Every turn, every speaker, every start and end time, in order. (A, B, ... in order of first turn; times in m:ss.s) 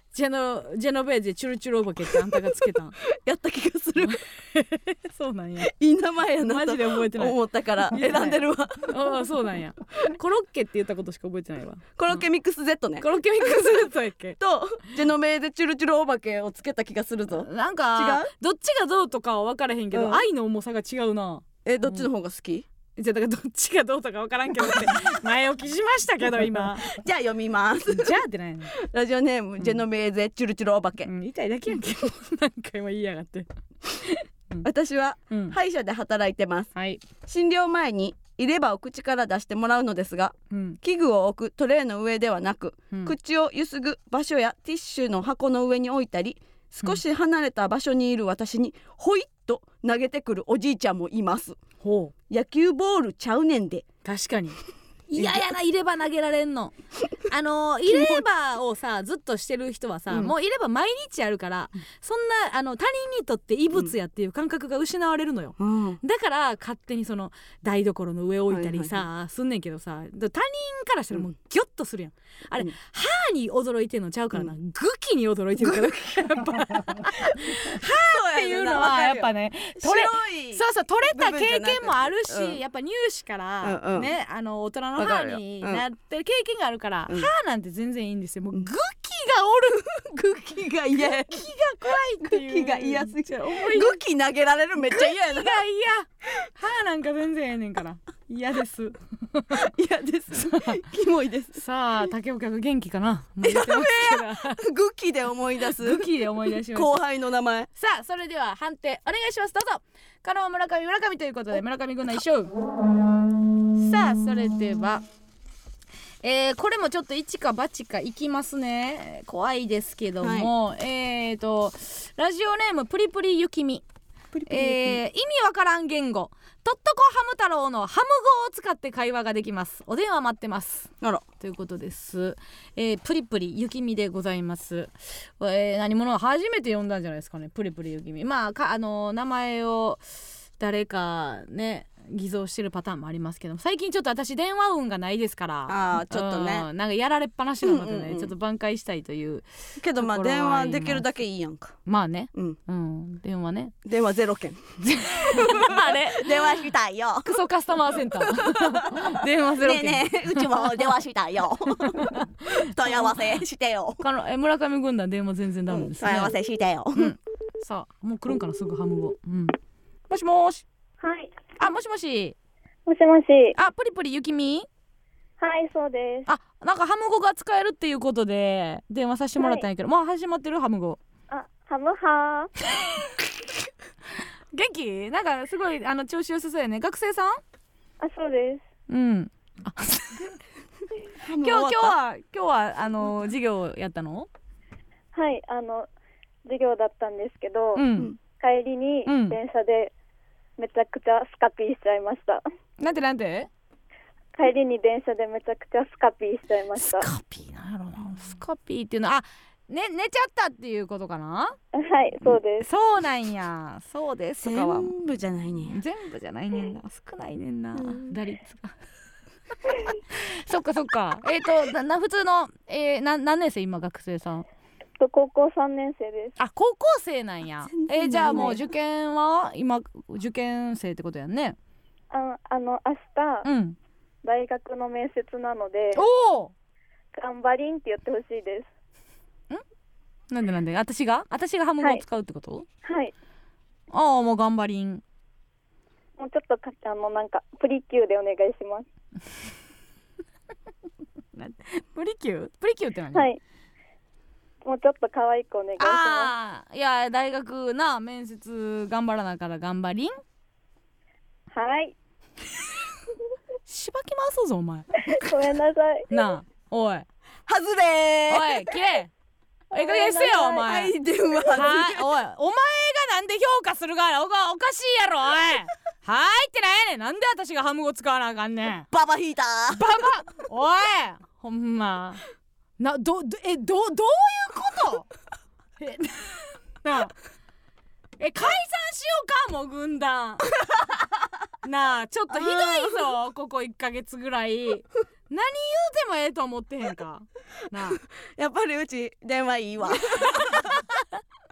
0:00.1-0:03.0 A
0:03.0-0:04.2 B
0:04.0-0:05.7 A
0:05.6-0:09.0 B
0:06.4-0:12.2 A
0:12.0-0:18.3 B
0:13.0-0:14.4 A
0:17.4-0:22.1 A
0:19.9-0:20.2 B
0:21.6-0:22.6 B
0:23.0-0:27.0 A
0:24.6-0:24.9 B
0:26.8-0:28.2 B
0:27.9-0:28.7 A
0:28.7-0:31.1 B
0:31.0-0:34.7 A
0:34.6-0:36.7 B
0:35.3-0:35.6 A
0:36.7-0:37.0 A
0:37.2-0:51.6 B
0:40.5-0:40.8 A
0:51.8-0:52.1 A
0:52.3-0:53.8 B
0:54.0-0:54.6 A
0:55.1-0:56.7 A
0:55.2-0:55.5 B
0:57.3-1:30.4 A
0:57.9-0:58.2 B
1:05.6-1:06.0 B
1:08.5-1:09.0 B
1:15.6-1:15.9 B
1:17.4-1:22.6 B
1:23.6-1:24.1 B
1:25.0-1:25.8 B
1:29.9-1:31.5 B
1:30.9-1:34.0 A
1:32.2-1:35.6 B
1:34.8-1:39.6 A
1:39.5-1:41.6 B
1:40.4-1:40.8 A
1:41.5-1:44.6 A
1:43.4-1:46.1 B
1:45.8-1:47.0 A
1:46.7-1:47.7 B
1:47.7-1:52.5 A
1:53.8-1:55.0 A
1:56.2-2:03.8 A
2:00.2-2:00.5 B
2:04.3-2:05.0 B
2:04.5-2:20.0 A
2:20.6-2:31.0 A
2:25.7-2:26.7 B
2:27.6-2:28.3 B
2:29.8-2:31.8 B
2:31.8-2:33.7 A
2:33.8-2:37.3 B
2:34.8-2:36.6 A
2:37.2-2:40.9 A
2:38.2-2:44.0 B
2:41.8-2:43.2 A
2:44.0-2:46.3 A
2:45.7-2:47.1 B
2:46.9-2:49.6 A
2:50.1-2:50.6 A
2:51.0-2:51.4 C
2:51.6-2:52.4 A
2:52.8-2:53.5 C
2:53.5-2:54.7 A
2:55.4-2:56.3 C
2:56.2-3:01.0 A
2:59.4-2:59.6 C
3:01.3-3:02.5 C
3:02.7-3:03.2 A
3:04.5-3:07.4 A
3:08.0-3:08.6 C
3:08.9-3:10.3 A
3:11.2-3:12.0 B
3:11.4-3:14.3 A
3:15.1-3:15.9 C
3:16.4-3:19.9 C
3:17.7-3:18.1 A
3:19.0-3:19.4 A
3:20.6-3:22.4 C
3:22.8-3:23.5 A
3:24.3-3:27.0 C
3:26.8-3:31.6 A
3:31.7-3:32.7 C
3:32.6-3:34.9 A
3:34.4-3:35.8 B
3:35.7-3:38.7 A
3:37.7-3:38.2 B
3:40.1-3:44.4 A
3:45.0-3:46.4 C
3:46.4-3:51.6 A
3:47.7-3:48.6 B
3:48.3-3:48.6 C
3:52.1-3:53.5 C
3:53.4-3:53.8 A
3:54.2-3:56.0 C
3:55.9-3:56.5 A
3:57.1-3:58.7 C
4:00.3-4:02.6 A
4:02.8-4:03.1 C
4:03.9-4:05.0 A
4:06.2-4:08.8 C
4:11.4-4:13.3 A
4:13.1-4:13.4 C
4:14.6-4:16.3 C
4:15.8-4:20.2 A
4:21.5-4:21.9 C
4:23.7-4:24.9 A
4:25.0-4:26.1 C
4:26.1-4:27.1 A
4:27.5-4:28.7 B
4:28.3-4:29.1 A
4:29.7-4:30.6 C
4:29.7-4:30.9 A
4:30.5-4:32.0 B
4:31.5-4:38.9 A
4:38.9-4:39.8 B
4:39.7-4:42.2 A
4:42.8-4:45.1 A
4:45.8-4:47.1 A
4:48.2-4:50.6 A
4:51.6-4:58.0 A
4:52.3-4:53.1 B
4:58.2-5:00.8 B
5:00.0-5:01.0 A